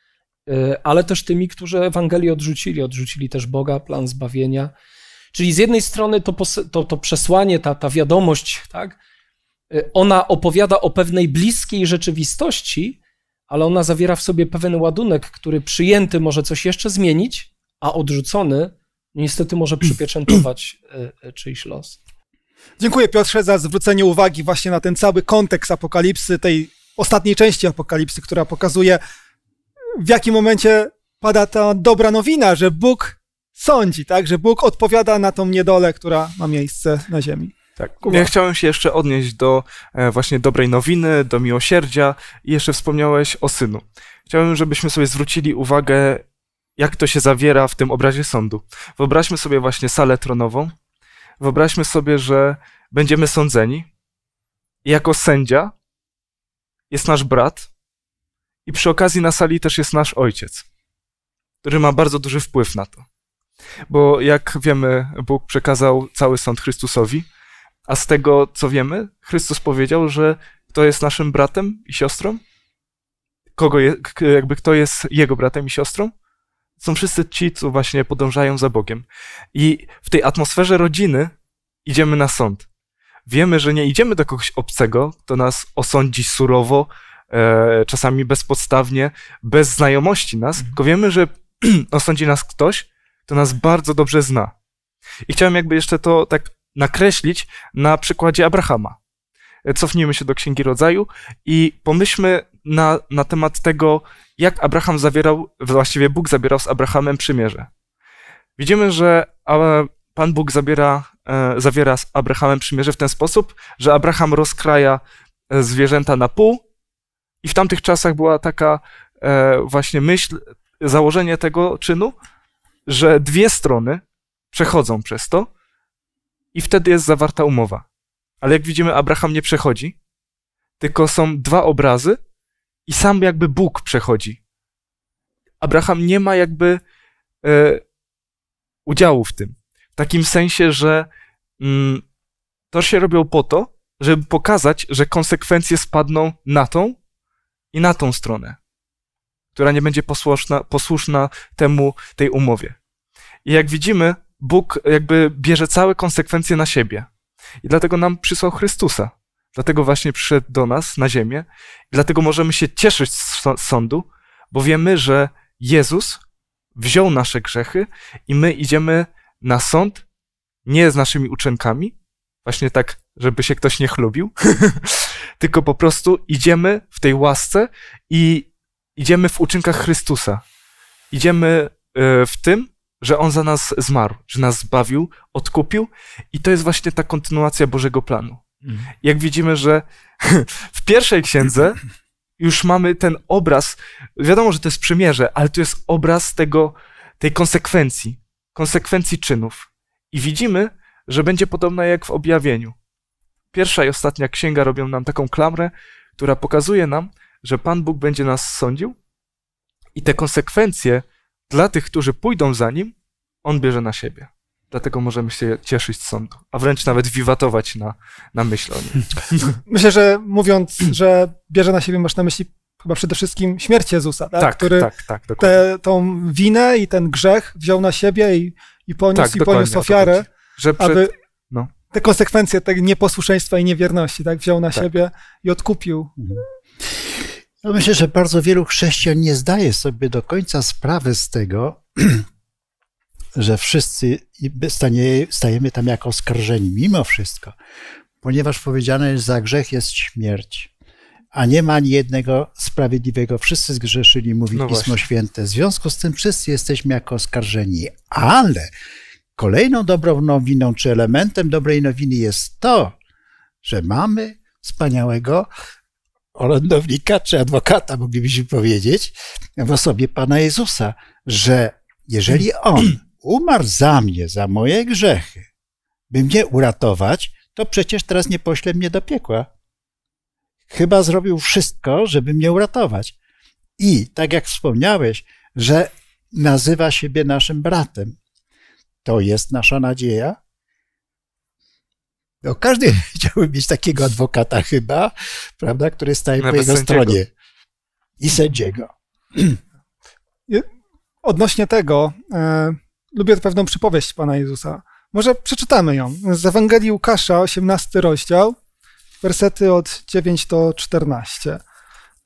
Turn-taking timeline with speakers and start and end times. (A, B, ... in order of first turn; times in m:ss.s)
0:00.5-0:04.7 A
0:05.3-0:09.0 A
0:09.7-0:13.0 A
0:13.5-0:22.0 A
0:22.8-0:29.0 B
0:30.0-0:38.3 B
0:37.8-0:46.2 C
0:46.8-0:50.7 C
0:51.4-0:53.8 C
0:54.8-0:55.7 C
0:56.9-0:57.7 C
0:58.6-1:00.6 C
1:01.6-1:03.0 C
1:03.9-1:07.2 C
1:07.9-1:12.4 C
1:13.6-1:16.1 C
1:16.8-1:21.3 C
1:21.8-1:22.6 C
1:23.3-1:34.5 C
1:35.3-1:39.0 C
1:39.6-1:47.7 C
1:48.6-1:56.6 C
1:57.4-2:02.1 C
2:02.9-2:04.0 C
2:04.5-2:05.5 C
2:06.5-2:07.8 C
2:08.4-2:09.9 C
2:10.8-2:12.2 C
2:12.9-2:14.4 C
2:15.6-2:16.8 C
2:17.4-2:17.8 C
2:18.8-2:21.1 C
2:21.6-2:22.0 C
2:22.7-2:27.0 C
2:27.7-2:28.6 C
2:29.5-2:32.8 C
2:33.4-2:37.1 C
2:37.6-2:46.2 C
2:46.8-2:50.0 C
2:50.6-2:51.9 C
2:52.4-3:00.4 C
3:01.1-3:08.4 C
3:09.0-3:11.8 C
3:12.4-3:22.7 C
3:23.5-3:29.0 C
3:30.0-3:32.9 C
3:33.4-3:39.6 C
3:39.7-3:44.9 B
3:44.4-3:45.6 C
3:45.4-3:50.2 B
3:49.1-3:51.7 C
3:50.8-3:51.1 B
3:51.9-3:56.1 B
3:57.6-4:02.2 D
4:03.4-4:07.5 D
4:08.2-4:10.7 D
4:11.3-4:18.7 D
4:14.5-4:15.0 C
4:19.4-4:23.0 D
4:23.6-4:25.5 D
4:26.3-4:35.5 D
4:36.1-4:39.5 D
4:40.7-4:43.1 D
4:43.8-4:48.2 D
4:49.0-4:50.4 D
4:52.4-4:57.3 D
4:56.4-4:57.2 C
4:58.2-4:59.6 D
5:01.2-5:08.6 B
5:09.2-5:11.6 B